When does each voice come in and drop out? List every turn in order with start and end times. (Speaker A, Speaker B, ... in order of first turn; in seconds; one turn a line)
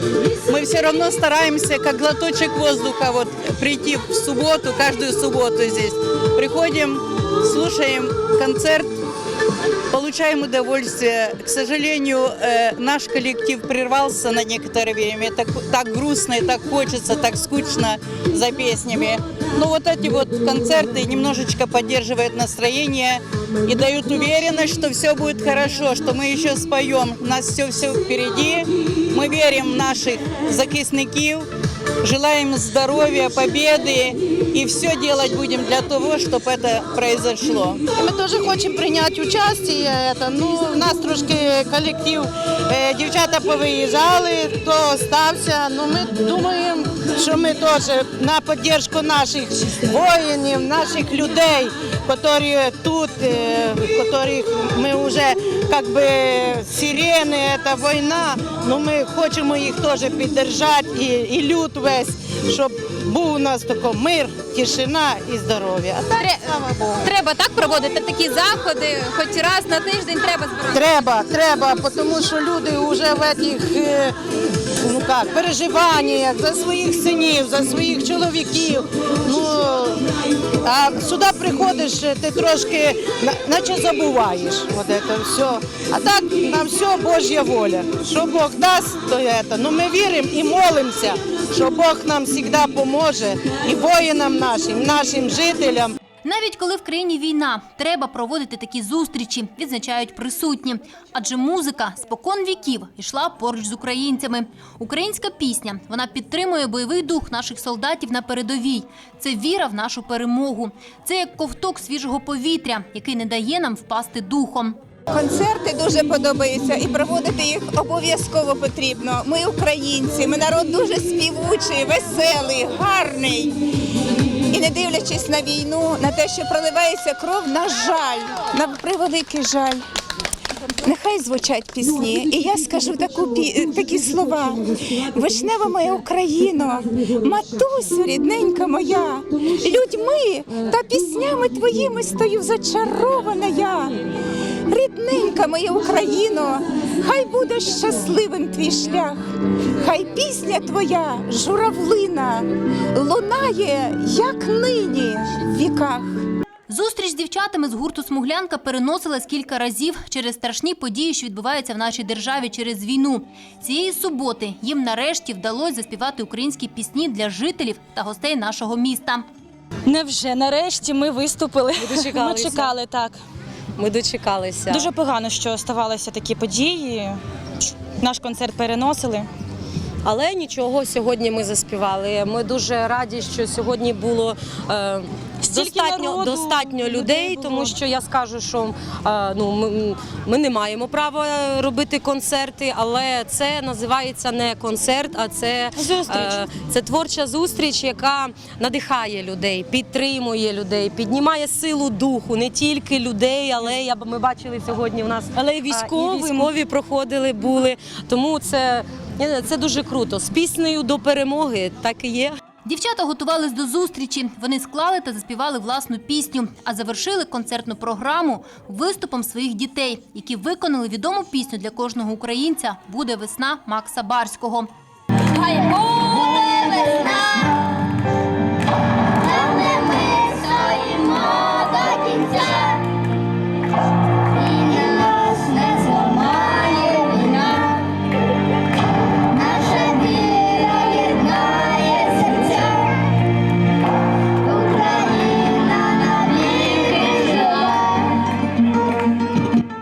Speaker A: 0.5-8.9
Speaker A: 9.9-31.5
Speaker A: 32.0-37.8
Speaker B: 37.9-67.1
Speaker C: 66.2-66.5
Speaker C: 67.0-70.8
Speaker B: 70.7-74.1
Speaker B: 74.8-80.0
Speaker B: 80.6-95.9
Speaker D: 96.2-114.8
Speaker E: 115.1-123.6
Speaker E: 124.5-129.8
Speaker E: 130.8-144.0
Speaker E: 144.7-149.2
Speaker E: 149.8-156.2
Speaker D: 156.7-169.2
Speaker F: 169.9-173.2
Speaker G: 171.8-172.8
Speaker G: 173.8-174.9
Speaker F: 174.7-177.2
Speaker F: 178.0-179.3
Speaker G: 180.0-212.4
Speaker F: 185.4-187.8
Speaker F: 195.9-196.3
Speaker F: 205.7-206.5
Speaker D: 212.7-224.7
Speaker D: 225.4-226.0
Speaker C: 225.4-227.6
Speaker C: 229.2-232.9
Speaker D: 230.7-232.6
Speaker C: 234.3-237.9
Speaker C: 239.3-243.1
Speaker C: 244.4-248.1
Speaker D: 247.1-247.6